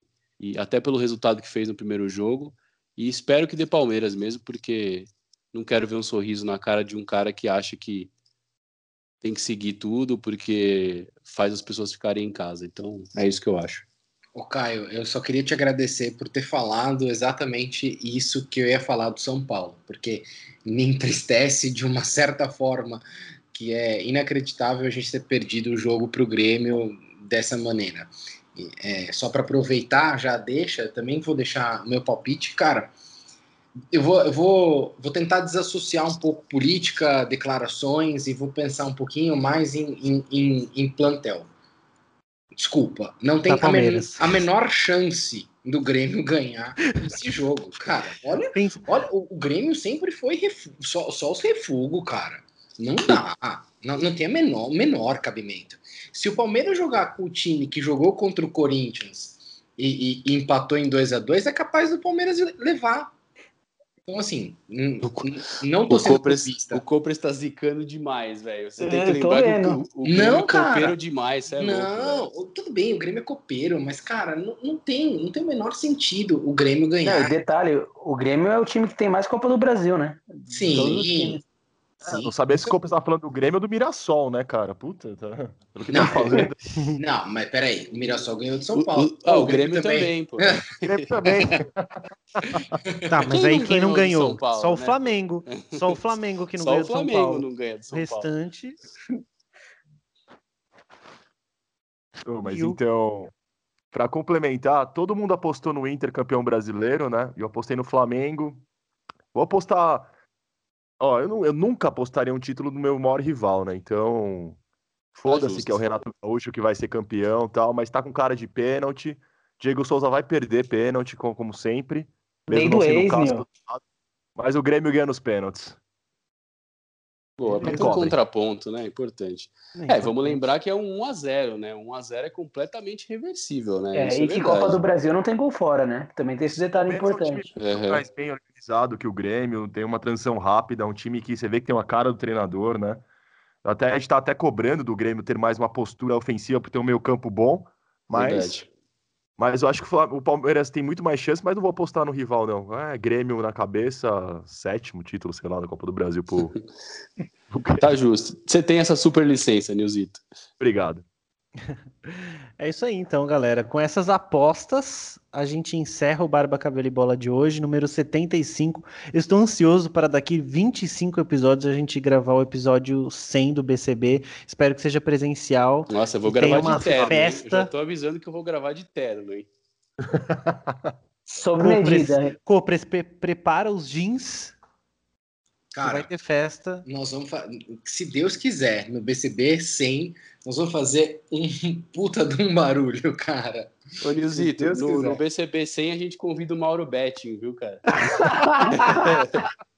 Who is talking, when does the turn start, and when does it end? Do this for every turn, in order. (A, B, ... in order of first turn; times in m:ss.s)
0:00.4-0:08.1 A
0:09.2-0:13.8 A
0:14.3-0:32.9 B
0:33.9-0:41.5 B
0:42.5-1:03.1 B
0:43.5-0:44.4 C
0:48.5-0:48.9 C
1:04.1-1:06.8 B
1:05.0-1:12.3 A
1:08.8-1:09.8 D
1:10.0-1:11.0 B
1:11.5-1:17.3 B
1:17.0-1:21.4 D
1:20.5-1:21.4 B
1:22.0-1:22.4 B
1:22.1-1:26.7 E
1:25.9-1:30.7 B
1:26.0-1:26.5 D
1:28.7-1:31.1 A
1:30.8-1:32.7 E
1:31.3-1:31.6 B
1:32.9-1:33.3 B
1:33.1-1:38.8 C
1:33.3-1:36.0 A
1:36.6-1:38.3 A
1:42.2-1:43.3 E
1:42.4-1:42.8 C
1:43.9-1:48.6 E
1:49.3-1:50.1 E
1:51.0-1:54.6 E
1:55.1-2:03.8 E
1:55.2-1:55.8 A
2:02.5-2:03.4 D
2:04.4-2:05.8 E
2:07.4-2:14.8 A
2:07.5-2:08.0 C
2:07.5-2:08.2 E
2:09.7-2:10.4 C
2:13.9-2:17.4 D
2:16.8-2:23.0 E
2:17.6-2:18.0 A
2:23.6-2:28.6 E
2:28.1-2:28.7 A
2:29.4-2:36.5 E
2:37.5-2:37.9 E
2:37.8-2:40.2 A
2:40.6-2:41.0 E
2:42.0-2:57.7 C
2:55.9-2:59.5 A
2:56.4-2:57.2 E
3:00.1-3:00.9 E
3:01.3-3:02.3 D
3:01.6-3:04.5 C
3:05.7-3:06.1 B
3:05.8-3:06.8 C
3:06.8-3:13.7 B
3:14.0-3:17.9 A
3:14.3-3:15.2 B
3:18.0-3:19.1 D
3:18.7-3:19.4 A